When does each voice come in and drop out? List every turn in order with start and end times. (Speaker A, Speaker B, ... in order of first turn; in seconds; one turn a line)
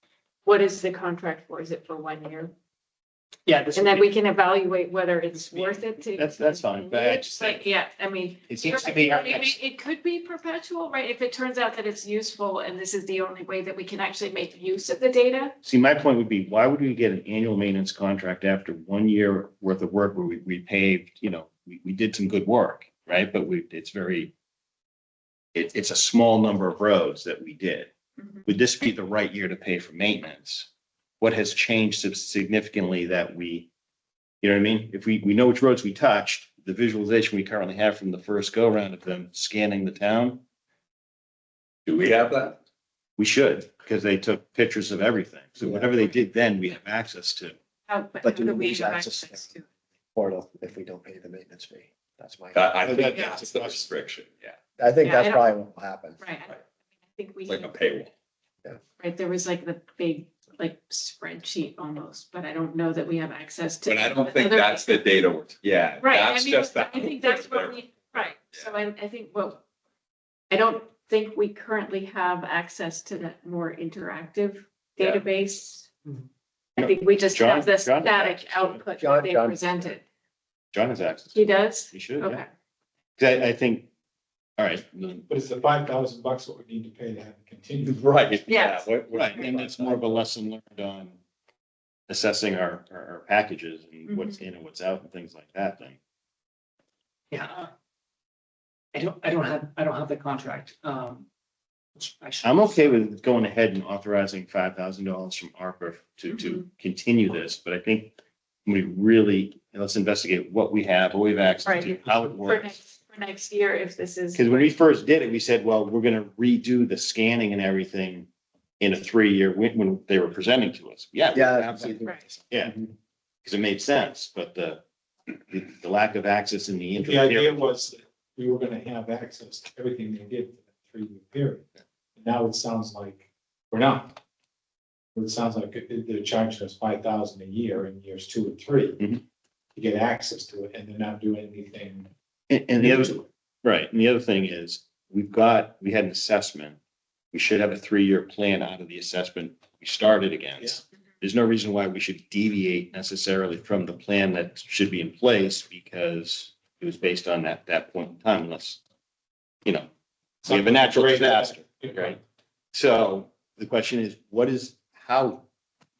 Speaker A: 0.4-2.5
Speaker B: 3.5-4.1
Speaker A: 3.7-15.5
Speaker C: 5.5-7.7
Speaker C: 8.5-9.6
Speaker C: 15.6-24.3
Speaker C: 25.5-27.9
Speaker C: 28.4-30.7
Speaker C: 31.2-33.7
Speaker C: 34.4-40.4
Speaker D: 41.9-42.6
Speaker C: 43.2-47.5
Speaker E: 45.6-45.9
Speaker A: 47.9-49.6
Speaker E: 48.2-49.5
Speaker E: 50.1-53.1
Speaker D: 52.5-54.5
Speaker C: 52.8-53.8
Speaker E: 54.8-56.2
Speaker A: 55.0-55.5
Speaker A: 56.2-57.7
Speaker D: 57.5-58.1
Speaker A: 59.0-65.1
Speaker D: 63.8-68.7
Speaker A: 66.0-69.6
Speaker A: 70.5-75.9
Speaker C: 76.8-78.8
Speaker A: 76.8-80.0
Speaker E: 79.0-79.9
Speaker C: 80.7-82.4
Speaker A: 81.3-82.5
Speaker C: 83.2-83.9
Speaker C: 84.6-85.2
Speaker F: 85.3-88.0
Speaker D: 87.8-90.2
Speaker A: 88.5-88.9
Speaker C: 89.1-91.2
Speaker C: 92.1-96.0
Speaker A: 94.1-94.4
Speaker B: 97.3-97.7
Speaker B: 98.9-101.2
Speaker B: 102.0-103.0
Speaker C: 102.4-112.7
Speaker A: 106.3-106.6
Speaker A: 111.6-114.7
Speaker C: 114.3-118.3
Speaker C: 118.8-122.0
Speaker E: 121.3-122.9
Speaker C: 122.5-122.8
Speaker C: 123.4-124.8
Speaker C: 125.5-127.7
Speaker F: 127.0-134.2
Speaker F: 135.1-139.0
Speaker F: 139.7-142.1
Speaker C: 142.5-146.8
Speaker F: 142.8-143.2
Speaker C: 147.3-158.8
Speaker C: 160.4-162.2
Speaker F: 160.4-162.2
Speaker C: 162.7-165.4